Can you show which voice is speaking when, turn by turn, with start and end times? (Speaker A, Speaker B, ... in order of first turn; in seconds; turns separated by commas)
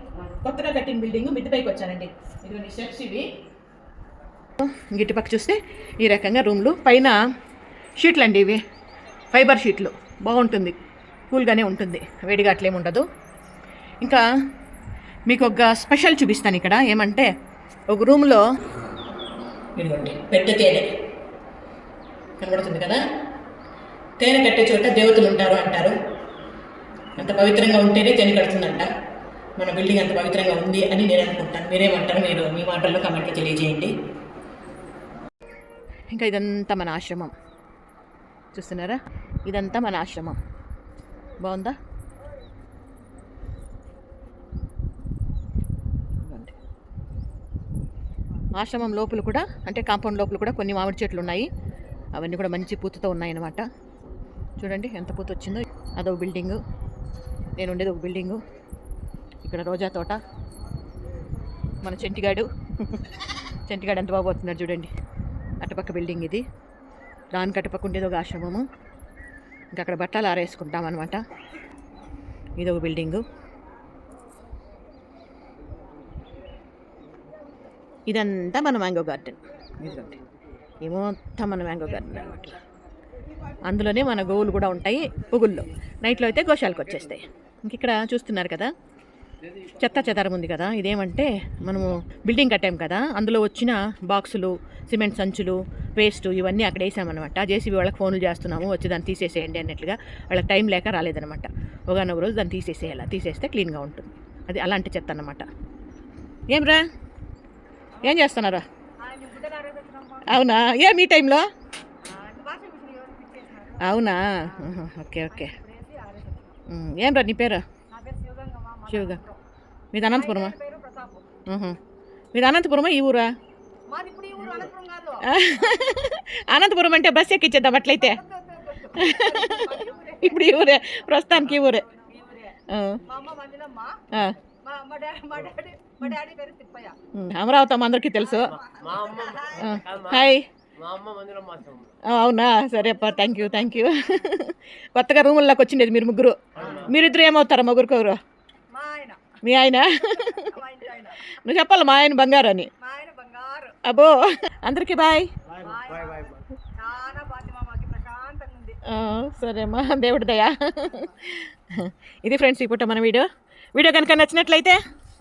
Speaker A: 0.3-3.2, Speaker A: 4.6-7.2, Speaker A: 8.0-8.6, Speaker A: 9.3-10.8, Speaker A: 11.3-13.1, Speaker A: 15.3-17.3, Speaker A: 17.9-18.4, Speaker A: 19.8-20.9, Speaker A: 22.4-23.0, Speaker A: 24.2-25.9, Speaker A: 27.2-28.9, Speaker A: 29.6-33.9, Speaker A: 36.1-37.3, Speaker A: 38.5-40.4, Speaker A: 41.4-41.8, Speaker A: 46.2-46.5, Speaker A: 48.6-51.5, Speaker A: 52.2-53.6, Speaker A: 54.6-56.6, Speaker A: 57.6-58.4, Speaker A: 59.4-60.2, Speaker A: 61.8-63.0, Speaker A: 63.7-64.9, Speaker A: 65.6-66.4, Speaker A: 67.3-68.7, Speaker A: 69.8-71.2, Speaker A: 72.6-73.2, Speaker A: 78.1-80.2, Speaker A: 80.8-82.5, Speaker A: 83.7-88.7, Speaker A: 89.8-105.5, Speaker A: 106.5-106.8, Speaker A: 108.0-108.7, Speaker B: 109.0-110.4, Speaker A: 110.3-111.5, Speaker B: 112.0-114.7, Speaker A: 113.8-115.5, Speaker B: 115.3-116.6, Speaker A: 116.7-117.6, Speaker B: 117.9-119.4, Speaker A: 118.9-119.2, Speaker A: 119.9-120.5, Speaker B: 120.1-121.3, Speaker A: 121.5-121.8, Speaker A: 122.3-123.3, Speaker B: 123.9-125.8, Speaker A: 125.2-128.2, Speaker B: 127.9-137.0, Speaker A: 128.9-131.8, Speaker A: 132.7-133.0, Speaker A: 137.1-138.6, Speaker B: 138.2-140.0, Speaker C: 138.6-141.9, Speaker A: 139.6-140.4, Speaker A: 142.1-148.2, Speaker B: 142.7-144.2, Speaker C: 146.6-146.9, Speaker B: 146.6-146.9, Speaker B: 148.7-149.2, Speaker A: 149.4-150.6, Speaker B: 149.9-151.2, Speaker A: 151.3-152.7, Speaker B: 152.8-153.8, Speaker A: 153.8-155.3, Speaker B: 155.6-158.8, Speaker C: 155.7-156.4, Speaker A: 158.9-164.8